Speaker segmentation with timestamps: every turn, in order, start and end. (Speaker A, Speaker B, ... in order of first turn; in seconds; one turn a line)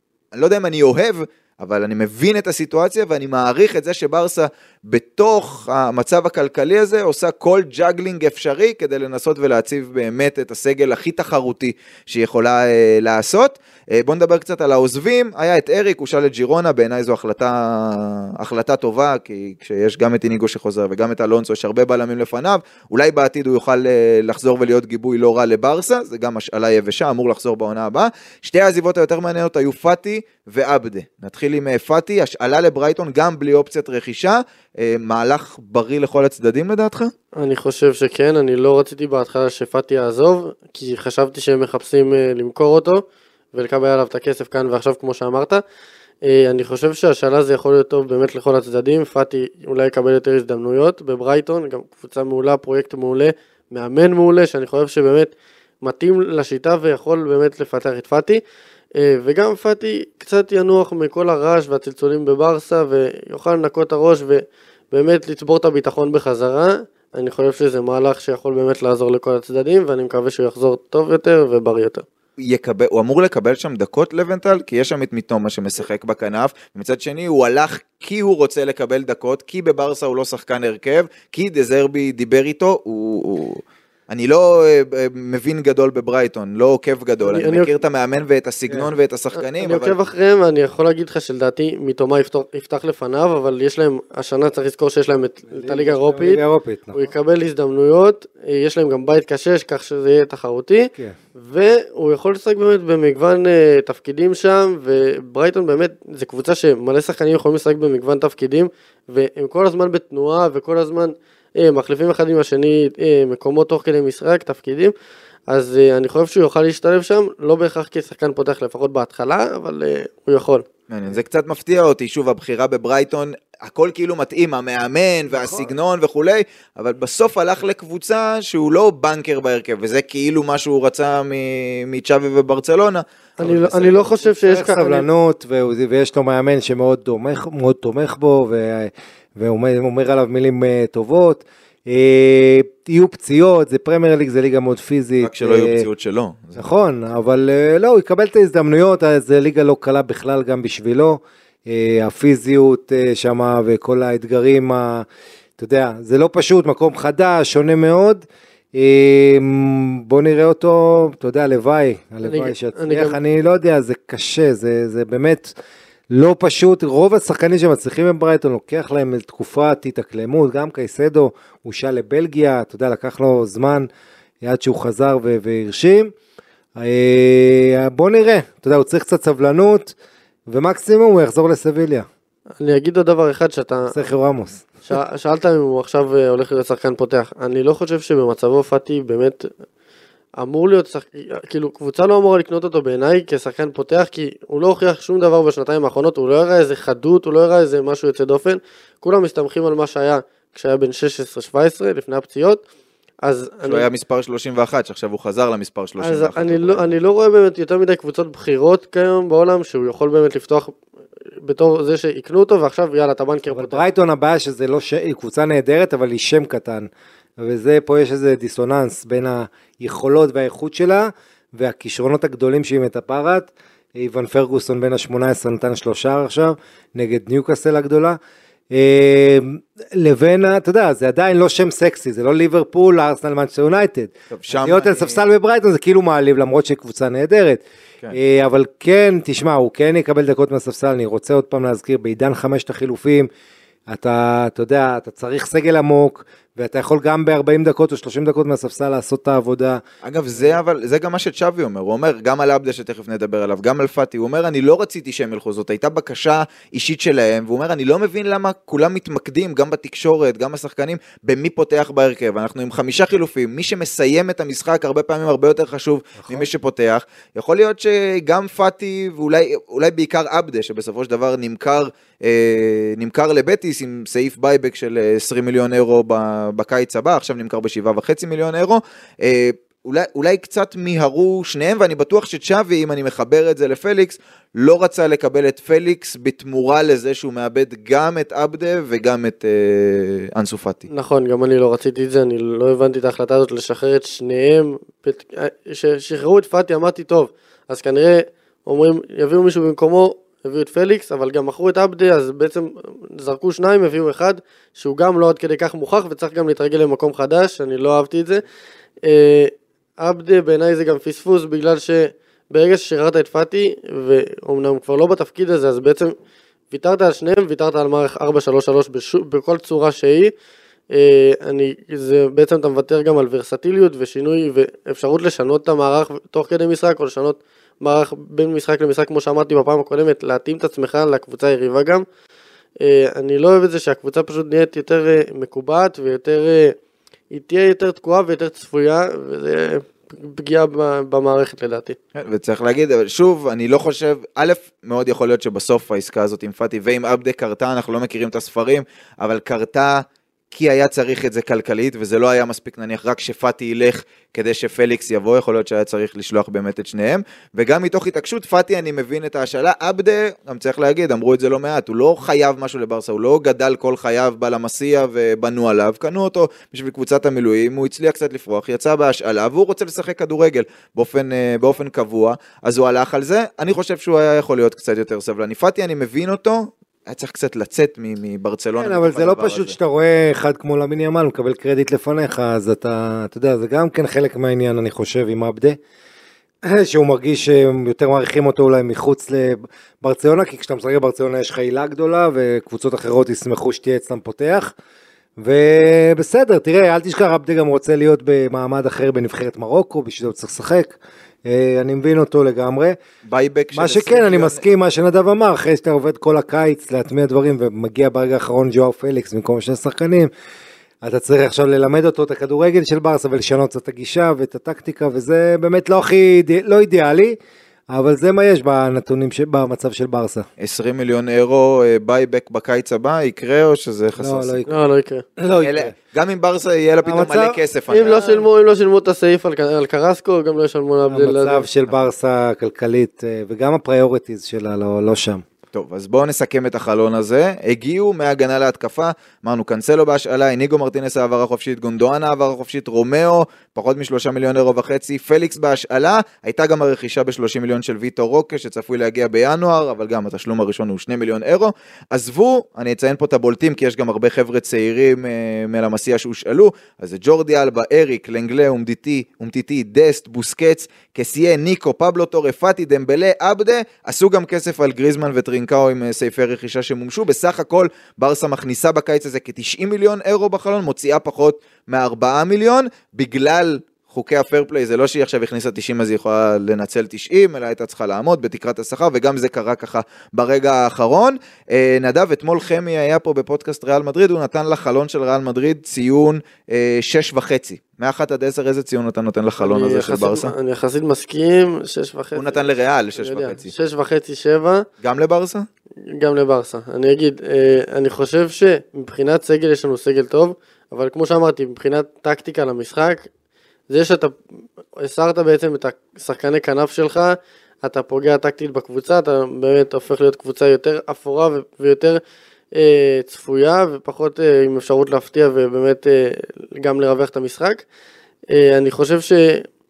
Speaker A: 0.3-37.1
Speaker B: 37.4-45.6
Speaker B: 46.2-58.4
Speaker B: 58.9-72.0
Speaker A: 72.4-90.0
Speaker B: 87.2-87.7
Speaker B: 89.3-96.4
Speaker C: 95.5-97.1
Speaker B: 96.9-114.9
Speaker B: 115.5-120.7
Speaker A: 120.9-134.1
Speaker C: 125.3-125.7
Speaker B: 133.4-135.1
Speaker C: 134.4-145.8
Speaker A: 145.2-146.6
Speaker C: 146.6-155.1
Speaker C: 155.6-158.2
Speaker C: 158.7-165.5
Speaker B: 162.2-163.2
Speaker C: 166.1-173.9
Speaker C: 174.4-176.1
Speaker C: 176.8-179.9
Speaker C: 180.5-182.1
Speaker B: 182.6-183.9
Speaker C: 183.9-184.7
Speaker B: 184.9-189.5
Speaker B: 190.4-202.6
Speaker B: 203.2-203.8
Speaker A: 203.6-206.9
Speaker B: 206.0-210.7
Speaker B: 211.4-213.8
Speaker C: 213.5-228.2
Speaker C: 228.7-237.6
Speaker A: 234.3-235.2
Speaker C: 238.1-243.3
Speaker C: 243.9-249.8
Speaker A: 250.0-290.9
Speaker C: 266.2-266.5
Speaker B: 290.9-308.4
Speaker B: 309.0-316.1
Speaker B: 316.7-320.3
Speaker B: 320.9-332.0
Speaker B: 332.8-336.8
Speaker B: 337.3-342.0
Speaker A: 342.1-379.8
Speaker C: 378.8-385.8
Speaker C: 386.6-394.7
Speaker C: 395.4-403.0
Speaker A: 403.2-404.6
Speaker C: 403.7-410.3
Speaker C: 411.0-417.4
Speaker C: 417.9-420.5
Speaker A: 420.6-424.6
Speaker C: 424.2-424.7
Speaker B: 424.7-425.2
Speaker C: 425.4-425.9
Speaker A: 425.6-428.4
Speaker C: 427.0-427.6
Speaker B: 427.9-431.6
Speaker C: 431.1-435.4
Speaker A: 435.7-490.5
Speaker B: 489.6-492.6
Speaker A: 492.3-493.7
Speaker B: 493.2-494.9
Speaker A: 495.0-495.7
Speaker B: 496.1-503.3
Speaker B: 503.9-504.4
Speaker B: 505.0-512.2
Speaker B: 512.7-517.8
Speaker B: 518.5-519.6